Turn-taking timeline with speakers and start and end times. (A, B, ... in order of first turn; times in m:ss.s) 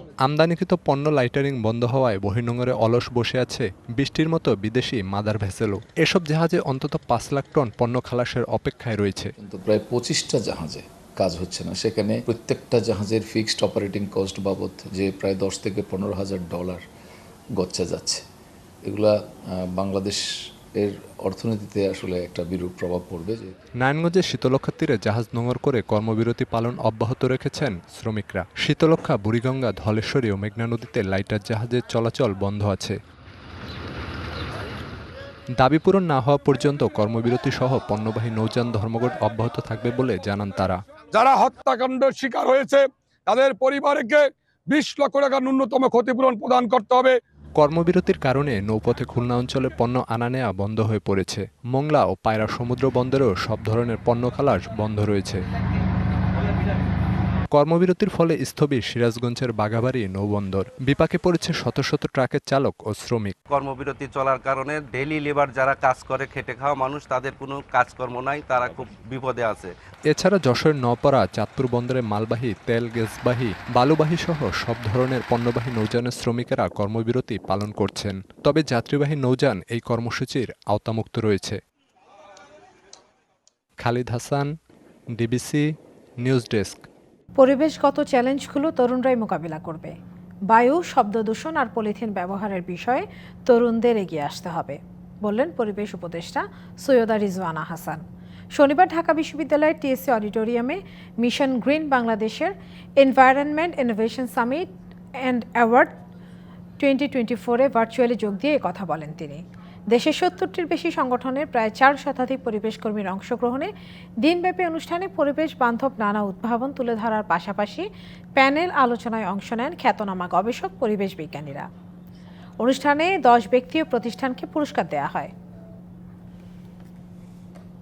0:00.2-0:09.3 A
0:09.4-0:16.8 B
0:17.6-0:18.2 B
0:18.8-0:20.2 B
0:20.8-0:23.6 B
0:23.8-0:33.0 A
0:35.6-0:40.8 A
0:41.1-0:47.2 C
0:47.6-0:55.4 A
0:57.5-1:03.3 A
1:03.5-1:09.7 D
1:10.1-1:21.6 A
1:23.8-1:24.5 A
1:25.2-1:25.6 A
1:26.2-1:26.8 A
1:27.4-1:29.9 E
1:30.5-1:38.0 E
1:38.6-1:44.7 E
1:45.2-1:45.9 E
1:46.8-1:53.7 E
1:54.2-2:01.7 E
2:02.6-2:05.3 E